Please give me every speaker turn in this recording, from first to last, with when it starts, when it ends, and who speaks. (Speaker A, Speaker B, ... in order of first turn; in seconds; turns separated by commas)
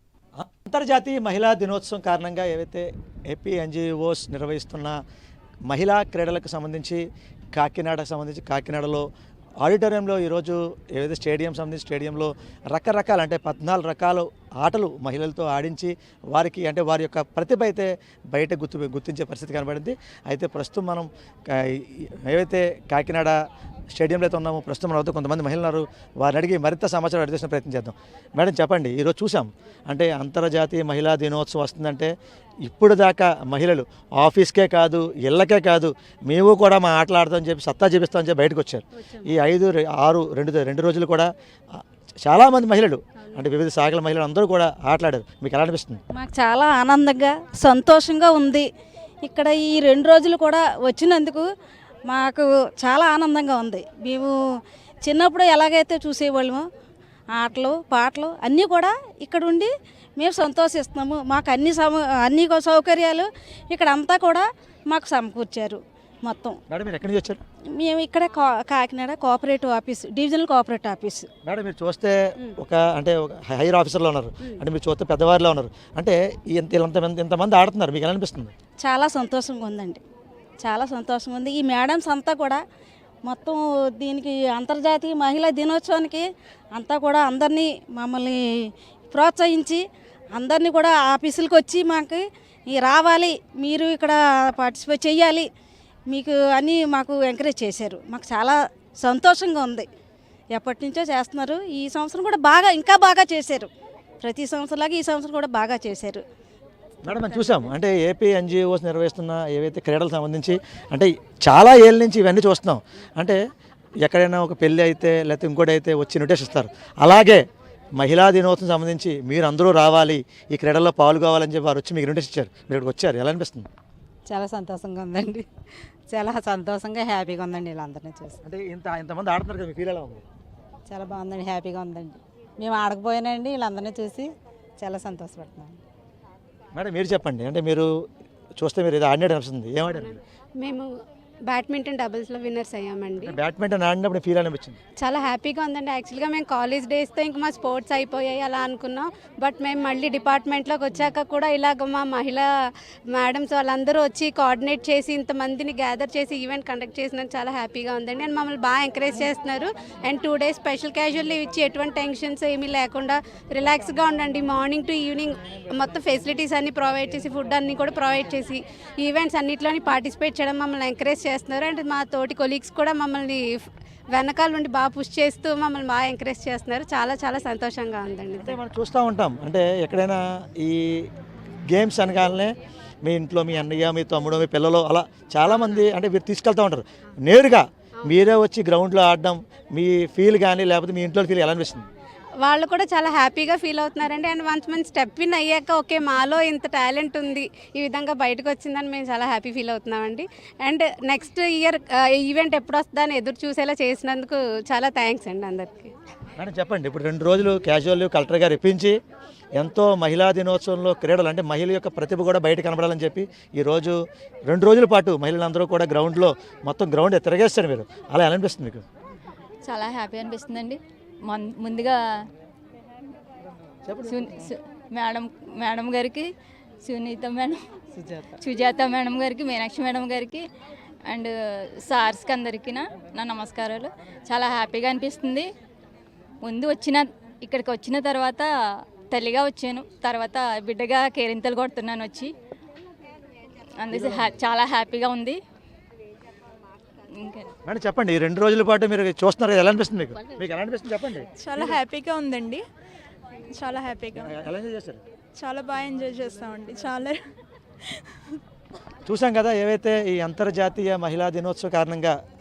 Speaker A: 0.4-5.0, Speaker A: 5.7-7.0, Speaker A: 7.5-9.1, Speaker A: 9.6-23.4, Speaker A: 23.9-32.1, Speaker A: 32.6-46.0, Speaker B: 46.1-48.7, Speaker B: 49.2-51.5, Speaker B: 52.1-54.4, Speaker B: 55.0-56.6, Speaker B: 57.3-66.6, Speaker A: 66.7-67.4, Speaker B: 67.8-71.3, Speaker A: 71.4-78.5, Speaker B: 78.8-80.0, Speaker B: 80.6-82.6, Speaker B: 83.3-89.8, Speaker B: 90.3-95.5, Speaker B: 96.1-99.9, Speaker B: 100.5-103.7, Speaker B: 104.2-106.2, Speaker A: 107.0-113.4, Speaker A: 114.0-117.4, Speaker A: 118.0-123.7, Speaker C: 124.3-125.5, Speaker C: 126.1-128.4, Speaker A: 128.4-130.2, Speaker C: 130.9-135.8, Speaker A: 136.7-137.9, Speaker A: 138.6-140.2, Speaker D: 140.0-140.9, Speaker D: 141.5-143.3, Speaker A: 143.2-144.8, Speaker D: 145.0-152.5, Speaker D: 153.1-173.6, Speaker D: 174.1-178.6, Speaker A: 178.4-181.1, Speaker A: 181.7-182.5, Speaker A: 183.0-191.9, Speaker D: 192.4-205.9, Speaker A: 206.4-208.9, Speaker A: 209.6-218.8, Speaker E: 219.6-222.0, Speaker A: 223.9-224.4, Speaker E: 224.1-226.3, Speaker E: 226.8-227.6, Speaker E: 228.4-230.4, Speaker E: 231.8-235.5, Speaker E: 236.4-238.5, Speaker E: 239.1-242.3, Speaker E: 243.8-245.4, Speaker A: 243.9-244.2, Speaker E: 247.2-247.5, Speaker A: 247.7-251.3, Speaker F: 251.4-252.6, Speaker F: 253.5-254.3, Speaker A: 254.1-255.0, Speaker F: 255.4-257.2, Speaker A: 259.1-262.2